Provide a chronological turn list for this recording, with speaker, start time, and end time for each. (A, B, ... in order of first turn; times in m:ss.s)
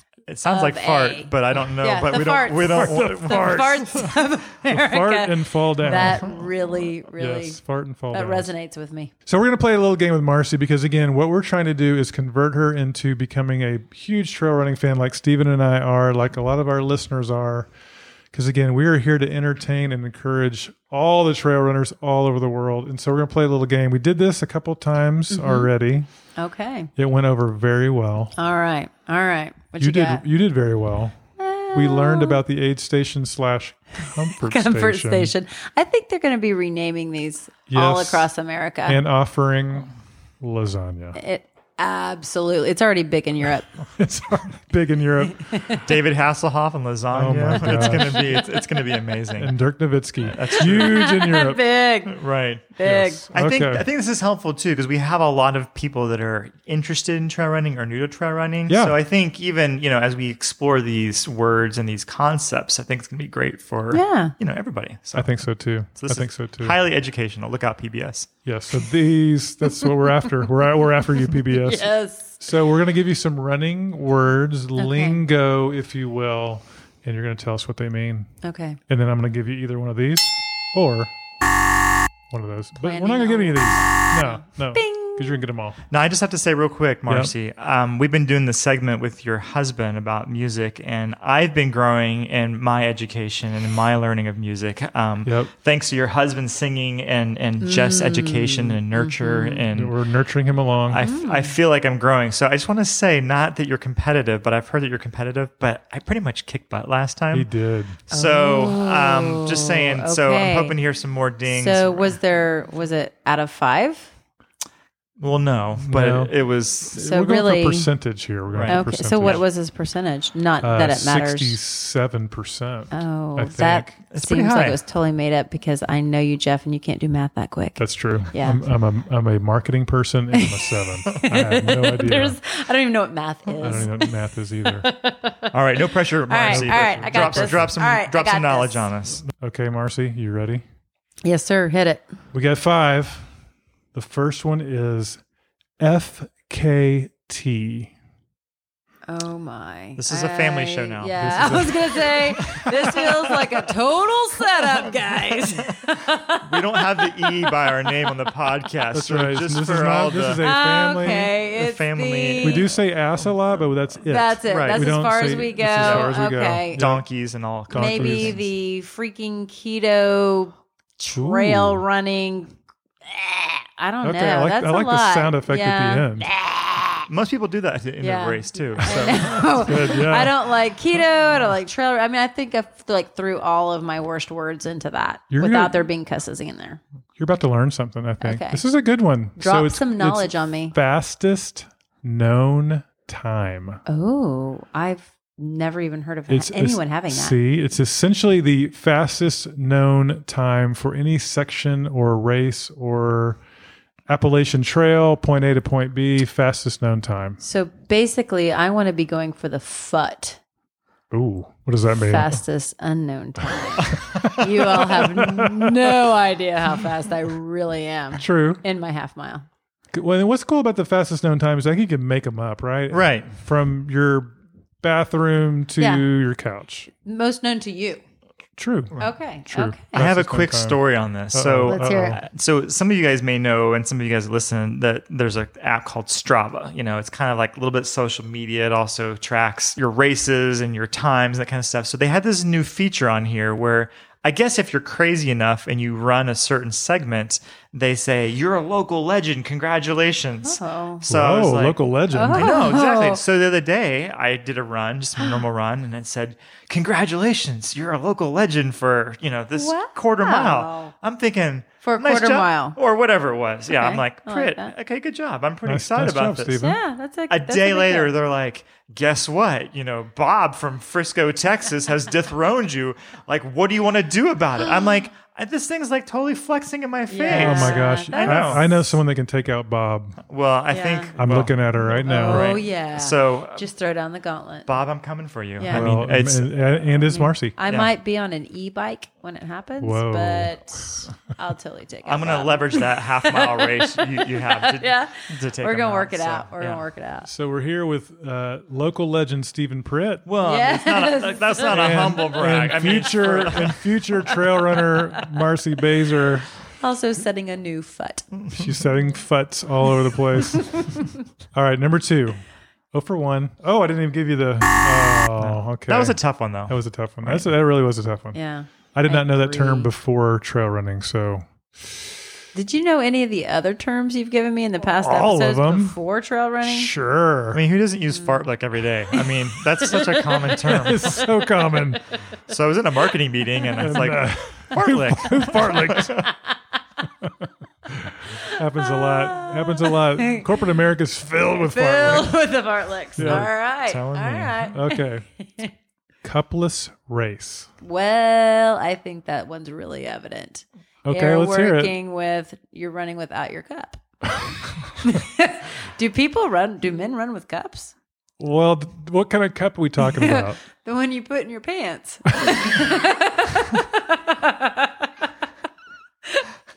0:00.3-0:03.8 A
0:00.5-0:01.3 B
0:01.8-0:09.1 B
0:02.7-0:06.3 C
0:06.0-0:06.3 A
0:07.2-0:08.5 C
0:09.3-0:17.7 C
0:18.3-0:26.1 C
0:25.3-0:25.7 B
0:26.4-0:26.9 B
0:27.0-0:28.3 C
0:28.4-0:30.2 B
0:29.8-0:31.2 C
0:31.4-0:32.4 B
0:31.7-0:35.3 C
0:34.4-0:39.0 B
0:37.7-0:38.3 C
0:38.9-0:41.2 C
0:41.2-0:43.7 B
0:44.0-0:45.4 C
0:45.5-0:45.8 B
0:45.8-0:49.5 A
0:47.1-0:48.4 C
0:47.7-0:48.5 B
0:49.4-0:51.6 C
0:50.2-0:51.2 A
0:50.6-0:52.2 B
0:52.1-0:52.8 A
0:52.8-0:53.2 B
0:52.8-0:53.8 C
0:53.3-1:05.4 A
0:58.7-0:59.0 C
1:03.9-1:04.3 B
1:05.2-1:06.8 C
1:06.0-1:08.3 A
1:08.4-1:18.3 C
1:11.5-1:12.3 B
1:14.8-1:15.2 B
1:18.4-1:18.8 B
1:18.9-1:21.1 C
1:22.3-1:25.8 C
1:22.8-1:25.3 B
1:25.9-1:39.9 A
1:27.1-1:27.3 C
1:35.2-1:35.5 C
1:37.6-1:39.7 B
1:39.7-1:41.0 C
1:40.9-1:47.5 A
1:41.0-1:41.5 B
1:47.3-1:48.0 C
1:48.1-1:52.2 A
1:48.1-1:50.8 B
1:51.5-1:54.1 B
1:55.2-1:57.0 A
1:55.8-1:56.3 C
1:56.9-1:59.4 C
1:56.9-1:57.9 B
1:58.5-1:59.4 A
1:58.7-2:01.6 B
2:00.6-2:03.9 C
2:02.9-2:08.6 B
2:04.1-2:04.8 A
2:07.8-2:12.4 C
2:10.3-2:18.9 B
2:13.6-2:14.9 C
2:15.5-2:19.2 A
2:16.5-2:17.7 C
2:19.3-2:20.6 C
2:21.2-2:22.0 B
2:22.3-2:23.3 C
2:23.9-2:25.2 C
2:25.8-2:27.9 C
2:29.1-2:37.6 B
2:30.0-2:33.0 A
2:31.2-2:32.2 C
2:36.4-2:40.4 A
2:38.9-2:41.3 C
2:40.4-2:42.7 B
2:41.0-2:42.7 A
2:42.4-2:47.1 C
2:44.0-2:46.8 B
2:44.4-2:45.0 A
2:45.8-2:46.2 A
2:46.7-2:48.4 A
2:47.7-2:48.4 C
2:47.7-2:52.5 B
2:51.1-2:51.8 C
2:53.1-2:57.1 B
2:54.0-2:56.3 C
2:57.1-2:59.4 A
2:58.0-3:06.8 B
2:58.8-3:00.4 C
3:05.3-3:05.8 C
3:07.2-3:13.8 C
3:08.2-3:08.6 B
3:09.4-3:10.8 B
3:13.9-3:17.4 B
3:16.3-3:23.4 C
3:24.1-3:27.4 C
3:27.4-3:30.4 B
3:31.1-3:32.3 C
3:32.1-3:39.5 B
3:34.1-3:35.9 C
3:38.1-3:38.6 C
3:39.9-3:46.9 C
3:42.9-3:43.3 A
3:45.8-3:46.0 B
3:46.9-3:48.0 B
3:48.6-3:50.8 C
3:49.0-3:49.9 B
3:49.9-4:11.8 A
3:51.3-3:52.2 C
3:51.6-3:52.2 B
4:10.4-4:11.0 B
4:11.1-4:12.7 C
4:12.1-4:13.2 B
4:12.3-4:26.7 A
4:19.6-4:20.9 B
4:21.8-4:22.8 B
4:23.7-4:24.7 B
4:25.7-4:26.8 C
4:26.6-4:28.1 B
4:27.3-4:39.0 A
4:37.1-4:38.8 B
4:37.3-4:40.2 C
4:40.2-4:43.7 A
4:40.7-4:41.1 B
4:41.2-4:42.5 C
4:42.0-4:44.7 B
4:44.7-4:46.5 A
4:45.6-4:45.9 B
4:45.7-4:47.6 C
4:47.0-4:57.3 B
4:49.8-4:50.6 C
4:52.0-4:56.8 A
4:57.2-5:00.3 C
5:00.3-5:03.8 A
5:00.4-5:02.1 B
5:01.7-5:06.5 C
5:04.7-5:05.1 B
5:06.8-5:08.3 B
5:08.3-5:08.7 A
5:08.5-5:10.8 C
5:10.3-5:11.1 B
5:11.5-5:12.4 C
5:12.9-5:18.4 C
5:15.4-5:17.5 A
5:18.3-5:19.9 B
5:18.9-5:21.4 C
5:22.5-5:26.9 B
5:25.0-5:26.0 C
5:26.6-5:27.6 C
5:27.5-5:31.3 A
5:28.1-5:28.4 B
5:29.9-5:30.2 B
5:30.6-5:32.0 C
5:31.1-5:31.4 B
5:32.5-5:36.3 A
5:33.8-5:36.2 C
5:36.2-5:36.5 B
5:37.9-5:42.4 C
5:38.8-5:40.5 B
5:41.6-5:45.7 B
5:43.2-5:43.5 C
5:43.2-5:44.7 A
5:44.7-5:45.3 C
5:46.2-5:47.7 C
5:47.8-5:54.3 B
5:51.0-5:51.9 C
5:55.0-5:57.9 B
5:58.4-6:00.6 C
6:00.0-6:05.1 B